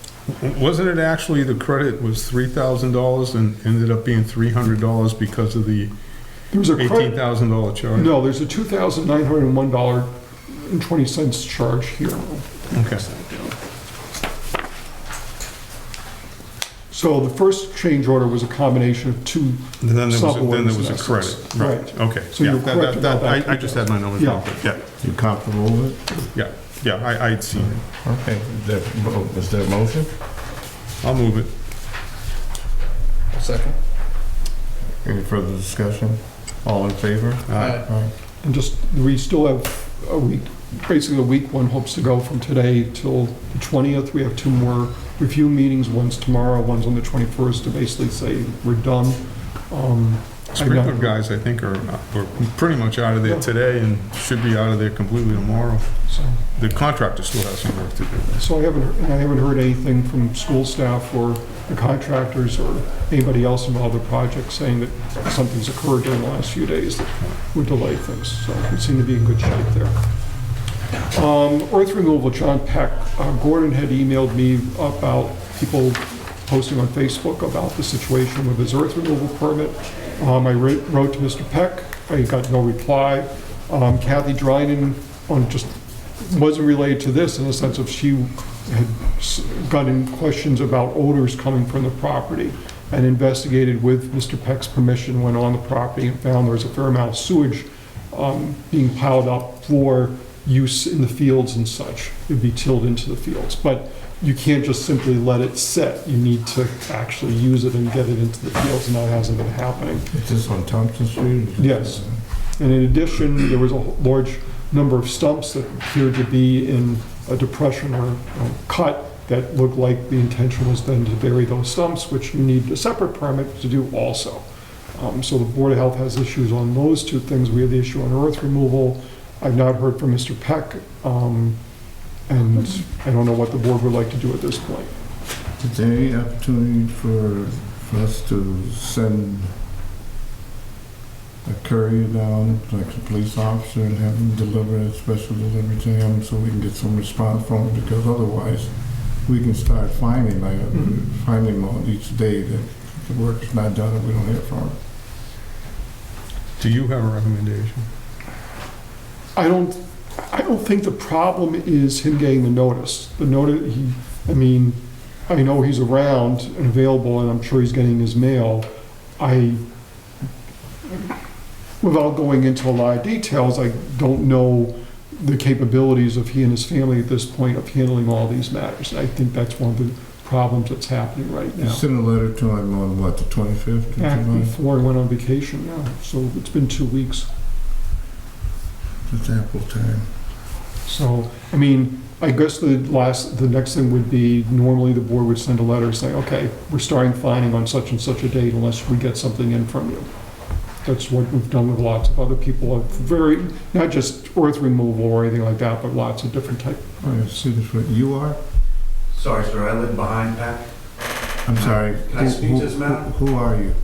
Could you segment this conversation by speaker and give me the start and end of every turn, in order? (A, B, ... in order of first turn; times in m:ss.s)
0:00.3-0:05.9 A
0:06.5-0:07.2 B
0:06.7-0:08.1 A
0:08.0-0:13.6 B
0:12.7-0:13.1 A
0:16.9-0:24.5 B
0:19.8-0:24.8 A
0:25.0-0:26.0 C
0:26.3-0:27.8 A
0:28.0-0:30.1 C
0:31.0-0:31.5 A
0:35.0-0:38.1 C
0:37.5-0:37.8 A
0:38.4-0:51.2 B
0:50.5-0:55.9 A
0:56.1-0:56.4 B
0:56.6-0:58.4 A
0:58.4-1:09.9 B
1:11.0-1:50.1 B
1:50.1-1:52.2 C
1:51.6-1:52.0 B
1:52.6-2:11.6 B
2:12.3-2:14.9 B
2:15.6-2:19.5 C
2:21.4-2:28.7 C
2:29.2-2:34.8 C
2:36.6-2:37.9 A
2:39.4-2:48.7 B
2:49.2-2:49.6 B
2:51.8-3:01.8 B
3:01.6-3:04.6 C
3:04.0-3:07.3 B
3:09.1-3:10.1 C
3:10.9-3:20.1 B
3:20.8-3:27.2 B
3:27.0-3:28.4 C
3:29.1-3:30.7 D
3:31.4-3:33.8 C
3:31.6-3:33.1 D